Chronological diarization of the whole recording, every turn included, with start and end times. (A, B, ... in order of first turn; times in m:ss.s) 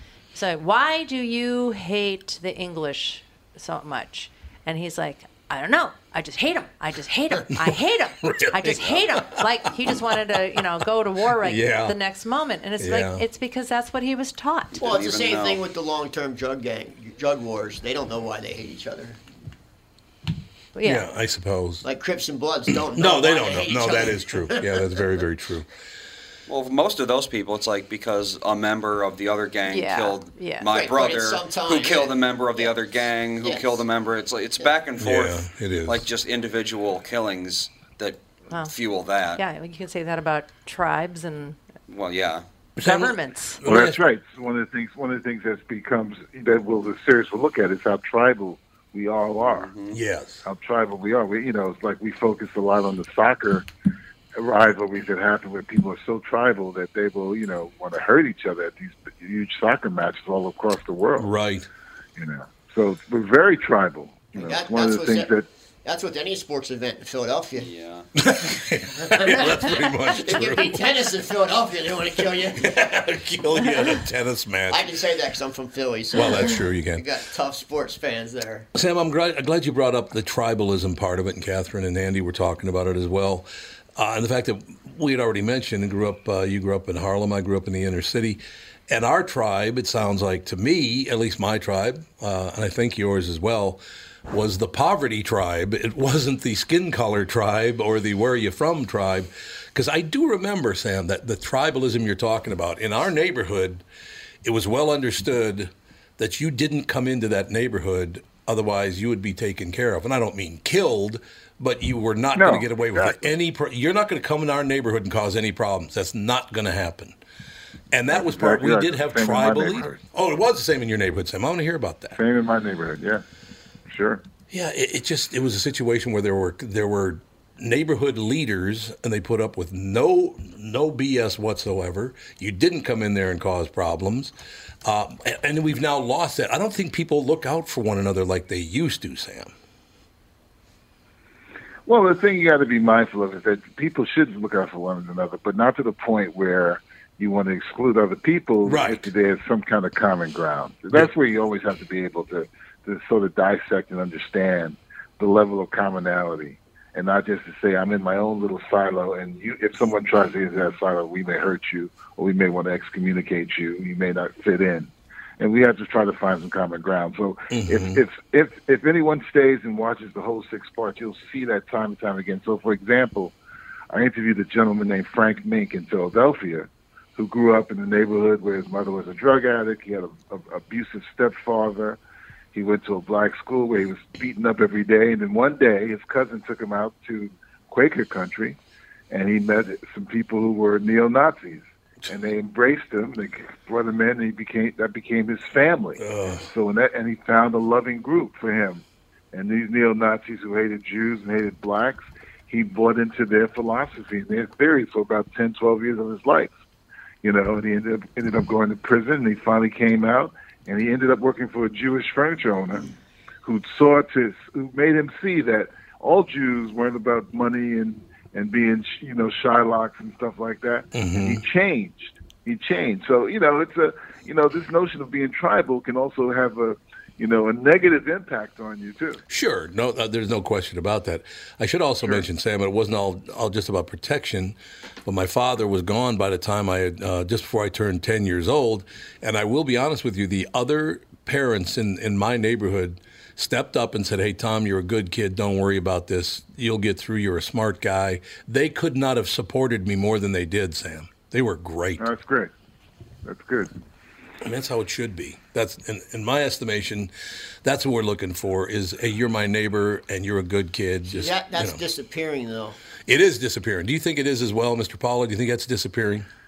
0:00.3-0:14.8 A
0:07.5-0:10.0 B
0:11.4-0:12.0 B
0:12.8-0:13.2 B
0:14.7-0:15.6 C
0:14.8-0:19.2 D
0:20.7-0:21.0 A
0:20.8-0:21.8 B
0:21.8-0:24.9 D
0:22.9-0:25.7 B
0:26.5-0:39.4 C
0:29.7-0:30.7 A
0:30.7-0:32.8 D
0:33.4-0:33.8 D
0:35.0-0:36.0 B
0:39.4-0:41.6 A
0:41.9-0:42.4 C
0:42.8-0:44.0 B
0:42.8-0:43.6 A
0:43.6-0:49.7 E
0:49.4-0:50.0 C
0:49.9-0:50.4 B
0:50.4-0:53.6 E
0:54.4-1:01.3 E
1:01.2-1:01.7 B
1:02.2-1:05.5 E
1:04.4-1:05.3 D
1:05.8-1:07.7 D
1:07.6-1:08.1 C
1:08.2-1:10.9 B
1:09.0-1:12.7 D
1:12.5-1:14.9 B
1:14.7-1:18.7 D
1:16.1-1:17.0 B
1:18.7-1:43.8 B
1:44.4-1:57.2 B
1:52.4-1:53.2 E
1:57.9-2:02.2 B
1:58.1-2:00.0 E
2:02.1-2:03.2 E
2:03.9-2:04.2 E
2:04.5-2:14.3 B
2:14.8-2:19.5 B
2:21.9-2:53.4 E
2:28.6-2:29.0 B
2:47.5-2:48.0 B
2:53.9-3:02.0 E
3:02.5-3:08.6 E
3:09.1-3:26.5 E
3:16.0-3:16.5 B
3:27.2-3:32.9 E
3:33.4-3:49.2 E
3:40.9-3:41.4 B
3:49.3-4:12.0 B
4:12.0-4:12.5 E
4:13.2-4:13.7 E
4:14.4-4:17.1 B
4:17.6-4:21.8 B
4:21.1-4:22.8 D
4:23.1-4:26.3 B